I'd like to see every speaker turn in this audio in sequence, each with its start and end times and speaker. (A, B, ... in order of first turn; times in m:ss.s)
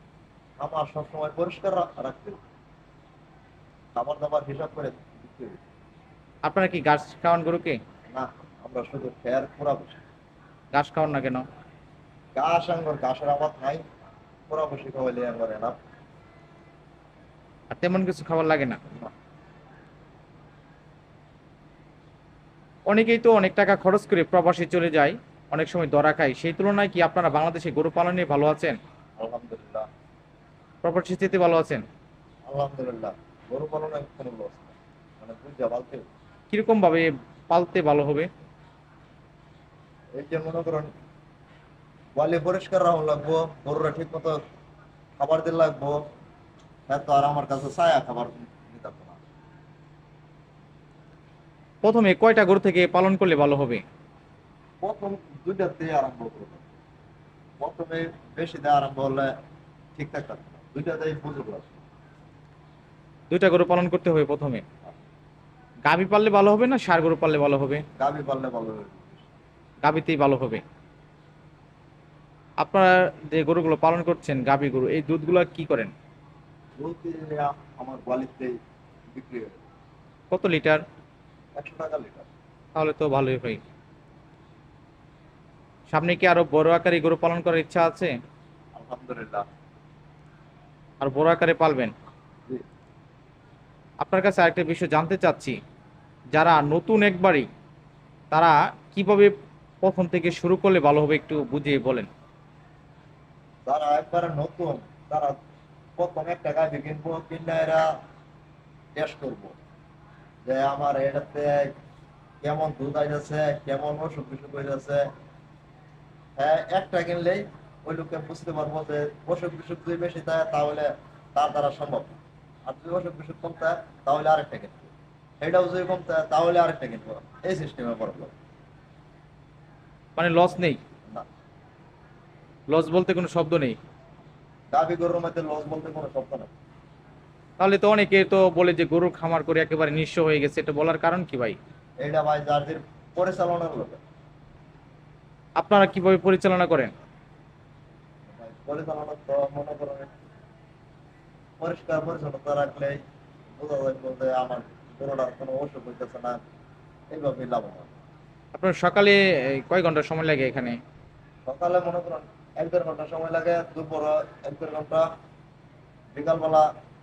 0:00.6-0:02.4 A
0:04.0-0:05.6 A
0:06.4-0:07.8 B
0:08.1-0:10.0 A
0:10.7-0:11.4 B
0:12.4-0:13.8 A
0:14.5-0:15.8 A
0:17.7-0:18.8 B
0:22.9-0:28.8 B
0:29.2-0:29.9 A
0:30.8-0:31.8 B
0:32.5-0:36.0 A
0:36.5-0:38.3 B
0:40.2-0:40.9 A
0:42.2-0:44.4 A
0:45.2-0:46.0 A
0:46.9-0:49.2 A
0:51.8-0:53.8 B
0:54.8-0:56.7 A
0:57.6-0:59.3 A
1:00.0-1:01.8 A
1:03.3-1:04.6 B
1:05.9-1:07.8 B
1:08.0-1:09.3 A
1:09.8-1:10.6 B
1:12.6-1:15.9 B
1:16.8-1:18.6 A
1:19.1-1:19.6 A
1:20.3-1:20.8 B
1:21.6-1:22.3 A
1:22.8-1:23.6 B
1:25.9-1:28.1 B
1:28.7-1:29.4 A
1:31.0-1:31.9 B
1:34.0-1:35.6 B
1:36.3-1:37.5 B
1:38.3-1:42.1 B
1:43.7-1:45.4 A
1:46.0-1:47.9 A
1:49.0-1:49.6 A
1:50.4-1:51.7 A
1:52.4-1:55.0 A
1:56.4-2:02.1 A
2:02.7-2:08.3 A
2:10.2-2:10.8 B
2:12.7-2:13.8 B
2:14.7-2:16.5 A
2:17.6-2:21.6 B
2:22.0-2:24.0 A
2:25.6-2:26.9 B
2:28.3-2:30.1 A
2:31.6-2:33.0 A
2:33.6-2:36.4 A
2:37.1-2:37.9 A
2:38.5-2:40.8 B
2:41.5-2:45.0 A
2:46.2-2:46.7 A